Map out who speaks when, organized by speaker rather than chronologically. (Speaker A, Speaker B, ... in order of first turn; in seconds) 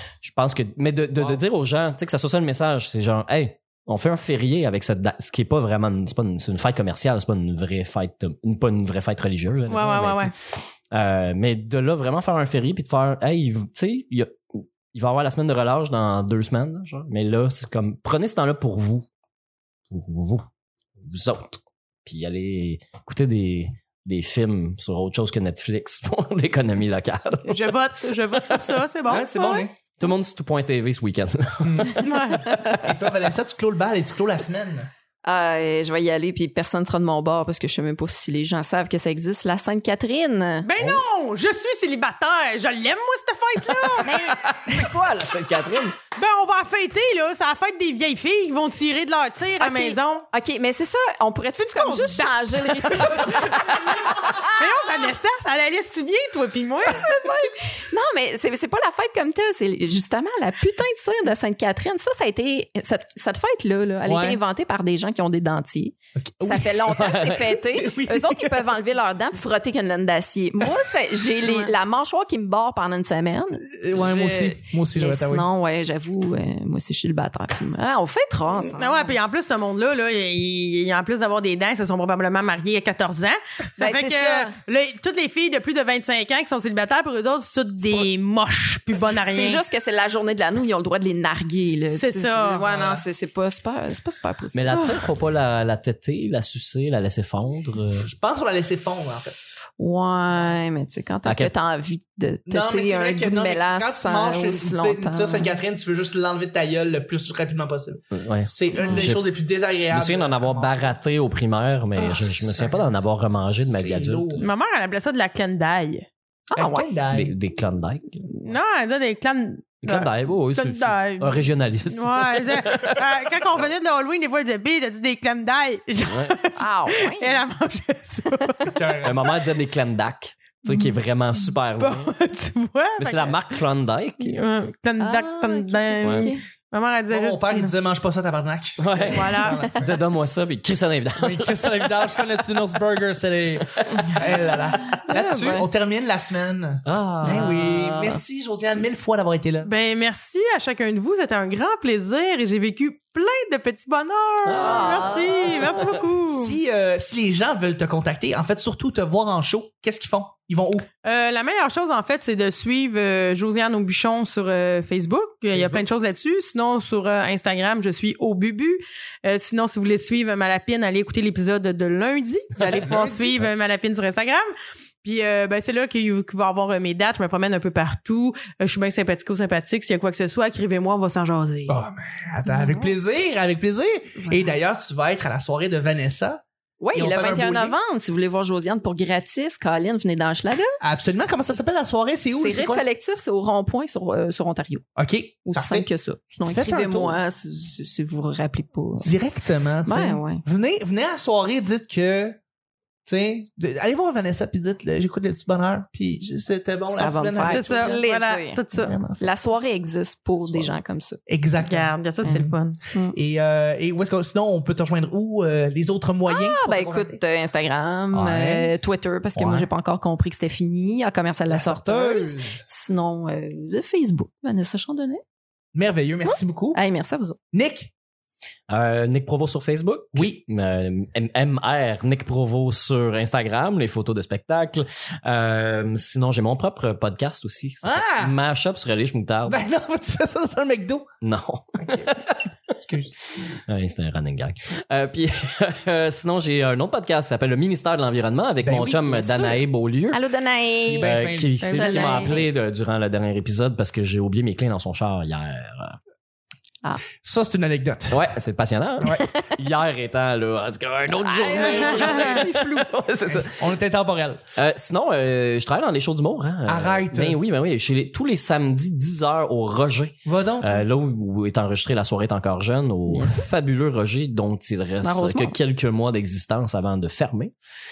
Speaker A: 0.2-19.1, 19.9-20.4, 21.0-27.8, 30.0-32.1, 44.0-46.0, 66.8-67.5, 94.5-98.1, 101.3-101.5, 108.1-109.3, 109.9-114.5, 117.1-118.6, 119.8-123.7, 126.1-126.4, 129.0-132.1, 133.0-134.4, 136.0-136.3, 138.8-142.2, 146.8-148.2, 154.4-156.0, 228.7-239.6, 241.2-242.5, 243.5-250.2, 251.0-256.0, 258.1-263.7, 264.6-277.5
Speaker B: 9.7-10.3, 27.5-29.6, 32.0-32.5, 40.6-44.2, 46.2-50.3, 51.6-57.1, 71.4-71.7, 78.7-89.6, 91.9-93.0, 94.7-95.0, 114.4-116.1, 118.3-129.0, 131.8-133.4, 134.2-137.7, 139.1-139.6, 149.6-156.6, 161.0-174.5, 175.0-181.8, 207.5-208.9, 211.6-212.8, 251.6-252.4, 261.5-262.4
Speaker C: 29.1-29.8, 31.6-32.0, 32.7-34.9, 53.3-53.9, 64.0-64.4, 66.4-68.7, 73.7-75.5, 97.9-99.5, 102.5-111.0, 112.0-112.9, 113.6-114.5, 116.5-117.3, 128.7-129.4, 137.1-139.9, 141.2-149.7, 156.3-160.9, 165.5-165.8, 172.6-173.4, 181.7-186.4, 186.9-187.8, 190.8-192.9, 195.0-195.9, 196.4-197.2, 199.0-202.4, 203.1-208.0, 208.7-209.2, 211.3-212.5, 213.1-217.2, 218.1-218.7, 219.4-219.7, 221.5-222.6, 225.7-226.8, 227.5-227.9, 230.1-230.4, 237.8-238.3, 239.5-241.1, 241.8-242.1, 242.8-243.2, 248.6-249.1, 250.8-252.0, 257.2-258.2, 263.2-264.4, 266.7-267.4, 270.2-270.9
Speaker D: 32.5-32.8, 35.2-40.7, 44.0-44.9, 49.6-55.1, 56.9-79.2, 83.8-84.5, 89.2-94.8, 99.8-105.5, 108.8-109.1, 116.5-116.9, 126.6-127.4, 135.0-136.4, 144.9-145.7, 154.6-155.8, 182.5-182.9, 184.2-184.5, 186.8-190.8, 192.3-194.8, 195.5-199.1, 199.9-200.4, 206.9-211.2, 216.3-225.2, 226.3-227.4, 249.1-251.1, 251.7-252.5, 259.1-259.5, 261.2-262.9, 273.1-273.5, 275.0-275.6